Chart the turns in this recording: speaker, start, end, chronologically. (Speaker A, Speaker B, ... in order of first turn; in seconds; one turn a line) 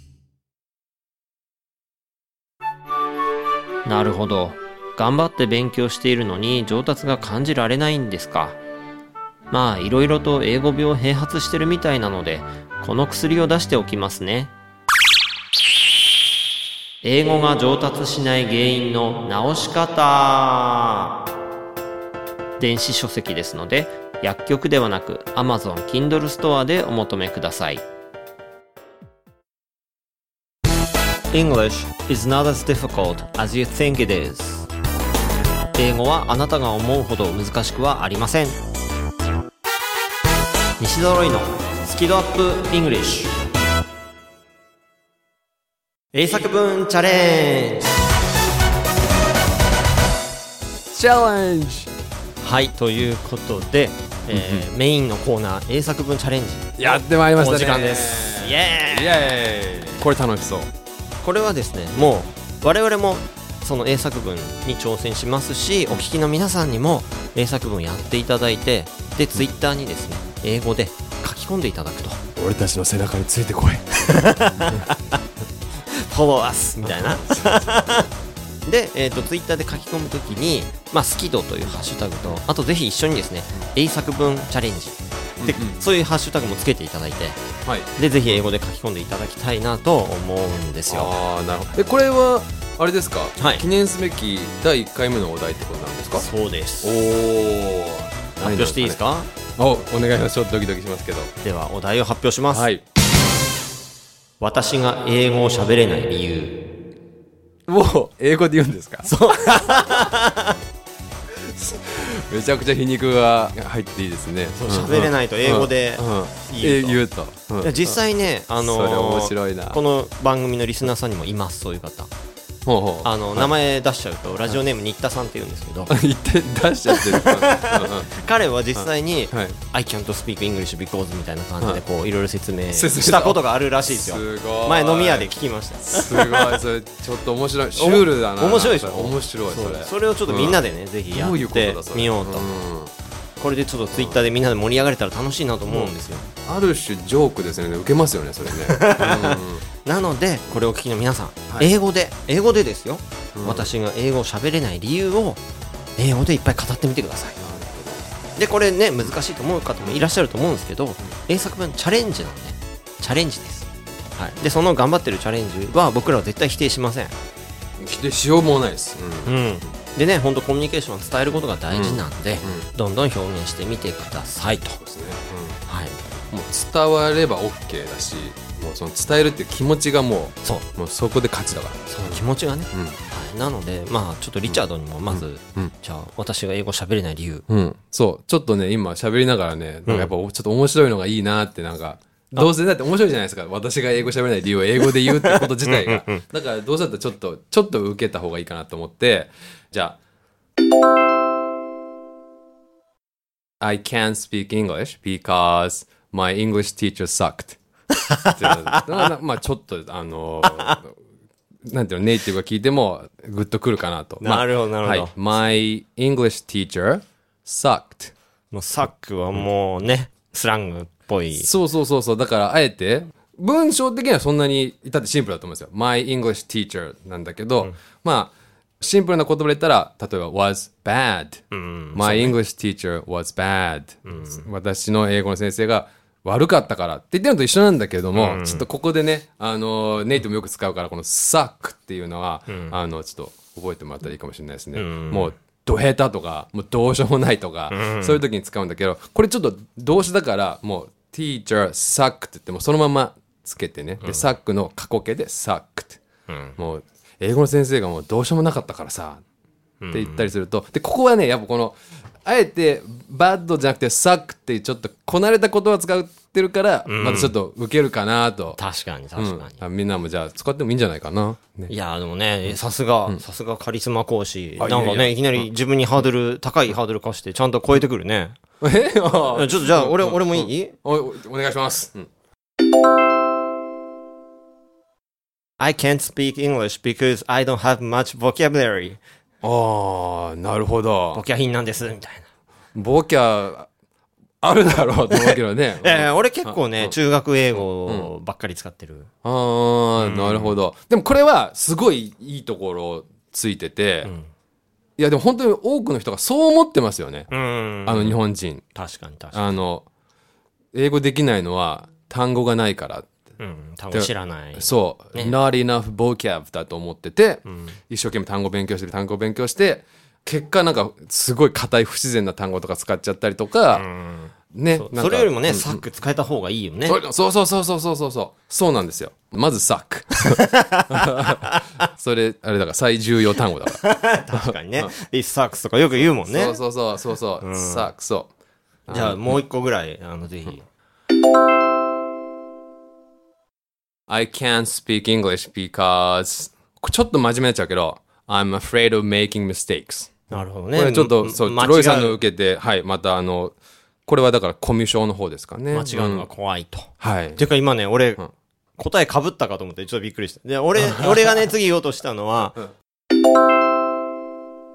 Speaker A: 3.8-8.6
Speaker A: 9.5-14.5
Speaker A: 17.0-21.1
Speaker A: 22.6-27.8
Speaker A: 31.3-34.7
Speaker A: 35.7-38.6
Speaker A: 40.8-43.4
Speaker A: 46.1-47.9
Speaker B: 50.9-51.9
Speaker A: 52.4-60.0
Speaker B: 54.3-54.6
Speaker B: 56.8-60.7
Speaker A: 61.2-72.2
Speaker B: 72.3-74.9
Speaker A: 74.0-75.2
Speaker A: 75.8-78.1
Speaker B: 76.8-78.1
Speaker A: 78.7-87.4
Speaker B: 85.4-85.8
Speaker B: 87.6-87.9
Speaker A: 88.0-91.1
Speaker B: 90.9-96.3
Speaker A: 93.4-93.6
Speaker A: 96.2-96.9
Speaker B: 96.8-99.0
Speaker A: 98.4-99.3
Speaker B: 99.6-101.3
Speaker A: 101.4-102.7
Speaker B: 102.5-102.8
Speaker A: 104.4-106.6
Speaker B: 107.7-110.1
Speaker A: 109.0-110.6
Speaker B: 111.3-118.0
Speaker A: 114.5-117.0
Speaker A: 117.6-122.1
Speaker B: 118.6-119.8
Speaker B: 122.6-123.5
Speaker A: 123.0-125.9
Speaker B: 125.9-128.1
Speaker A: 126.9-136.6
Speaker B: 128.8-129.6
Speaker B: 132.7-142.9
Speaker A: 137.8-142.5
Speaker A: 143.4-146.3
Speaker B: 143.9-144.2
Speaker B: 146.4-149.6
Speaker A: 148.5-155.4
Speaker B: 153.3-153.7
Speaker A: 156.0-157.4
Speaker B: 157.4-158.1
Speaker A: 158.4-167.1
Speaker B: 167.8-169.3
Speaker A: 169.2-174.8
Speaker B: 171.7-172.7
Speaker B: 174.8-175.6
Speaker A: 175.7-176.0
Speaker B: 176.3-183.0
Speaker A: 181.9-187.4
Speaker B: 185.1-185.7
Speaker B: 187.5-200.0
Speaker A: 189.8-190.1
Speaker A: 195.0-196.2
Speaker B: 203.6-207.6
Speaker A: 207.9-209.1
Speaker B: 208.3-210.9
Speaker A: 210.4-210.8
Speaker B: 211.6-218.1
Speaker A: 214.2-215.1
Speaker A: 218.5-221.5
Speaker B: 221.4-256.0
Speaker A: 231.5-232.4
Speaker A: 234.1-234.4
Speaker A: 238.1-238.7
Speaker A: 242.5-242.7
Speaker A: 244.7-245.3
Speaker A: 247.7-248.2
Speaker A: 254.0-254.3
Speaker A: 256.3-256.6
Speaker B: 256.6-259.2
Speaker A: 259.8-260.3
Speaker B: 259.9-268.6
Speaker A: 266.9-267.3
Speaker A: 268.6-269.6
Speaker B: 269.1-271.7
Speaker A: 271.7-278.4
Speaker B: 274.6-275.4
Speaker B: 278.6-282.1
Speaker A: 279.3-280.7
Speaker A: 285.6-289.0
Speaker B: 289.4-291.2
Speaker A: 291.1-292.3
Speaker B: 292.7-293.7
Speaker B: 294.4-296.9
Speaker A: 295.1-299.1
Speaker B: 299.2-304.1
Speaker A: 300.0-300.5
Speaker B: 305.0-307.3
Speaker A: 307.3-308.2
Speaker B: 307.8-308.6
Speaker A: 308.7-309.4
Speaker B: 309.3-309.9
Speaker B: 310.7-313.1
Speaker A: 313.4-315.4
Speaker B: 313.9-323.9
Speaker A: 317.5-317.7
Speaker A: 323.7-327.0
Speaker B: 324.5-325.8
Speaker B: 326.9-334.9
Speaker A: 330.1-331.8
Speaker A: 333.7-336.6
Speaker B: 336.2-338.3
Speaker A: 337.4-337.9
Speaker B: 338.9-339.4
Speaker A: 338.9-340.6
Speaker B: 344.1-353.5
Speaker A: 350.3-352.2
Speaker B: 354.1-356.3
Speaker A: 355.7-358.2
Speaker B: 357.0-357.4
Speaker A: 358.8-362.6
Speaker B: 360.8-361.4